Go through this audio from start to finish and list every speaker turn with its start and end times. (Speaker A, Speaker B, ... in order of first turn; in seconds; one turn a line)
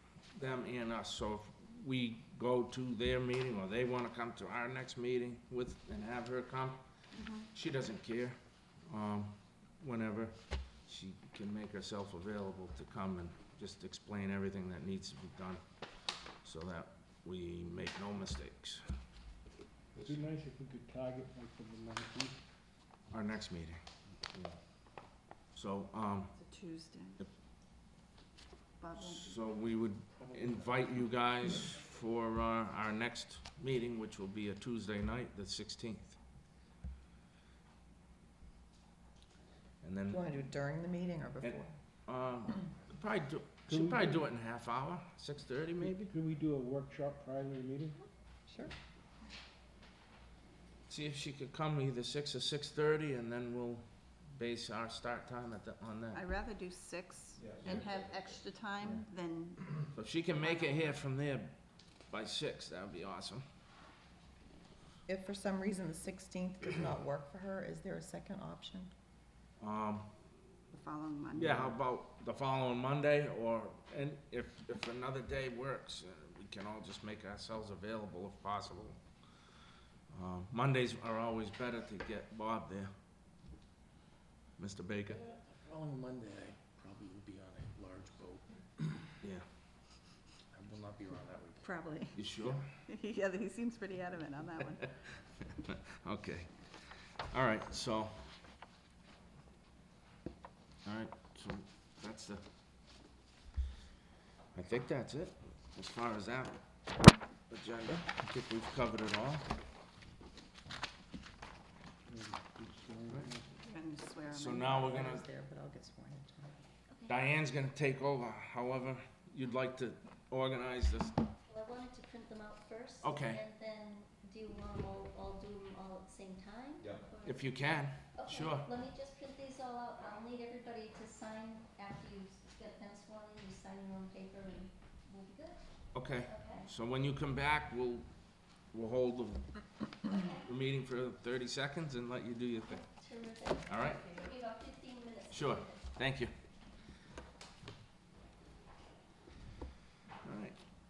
Speaker A: 0.3-6.8
Speaker B: 7.2-7.4
Speaker A: 7.5-8.3
Speaker A: 8.9-15.6
Speaker A: 16.4-18.8
Speaker C: 20.1-22.4
Speaker A: 23.1-23.8
Speaker A: 25.5-26.4
Speaker B: 26.4-27.2
Speaker B: 28.8-29.4
Speaker A: 29.0-36.2
Speaker A: 39.8-40.2
Speaker D: 40.1-41.7
Speaker A: 41.4-46.1
Speaker C: 43.7-44.2
Speaker C: 45.9-48.0
Speaker D: 48.5-48.7
Speaker A: 50.9-56.2
Speaker B: 56.1-59.9
Speaker A: 59.9-61.5
Speaker B: 60.4-60.8
Speaker A: 62.1-63.4
Speaker D: 65.1-68.9
Speaker A: 69.6-70.1
Speaker B: 70.7-71.7
Speaker A: 71.3-79.0
Speaker A: 80.1-82.9
Speaker A: 84.6-85.2
Speaker E: 85.4-88.9
Speaker E: 90.5-91.7
Speaker B: 91.6-94.9
Speaker A: 92.1-92.7
Speaker A: 95.5-96.5
Speaker A: 97.3-98.2
Speaker A: 100.8-102.4
Speaker A: 104.5-106.6
Speaker A: 107.5-109.5
Speaker C: 112.1-113.4
Speaker B: 113.7-114.9
Speaker A: 114.3-115.2
Speaker D: 114.6-116.6
Speaker A: 117.1-121.2
Speaker F: 121.5-127.4
Speaker A: 123.0-123.4
Speaker A: 127.2-128.7
Speaker F: 128.1-135.6
Speaker A: 135.9-138.1
Speaker F: 136.2-136.7
Speaker A: 138.7-139.4
Speaker F: 140.1-140.4
Speaker A: 140.4-142.8
Speaker F: 142.7-145.8
Speaker A: 143.7-144.0
Speaker A: 145.3-146.3
Speaker A: 150.2-150.6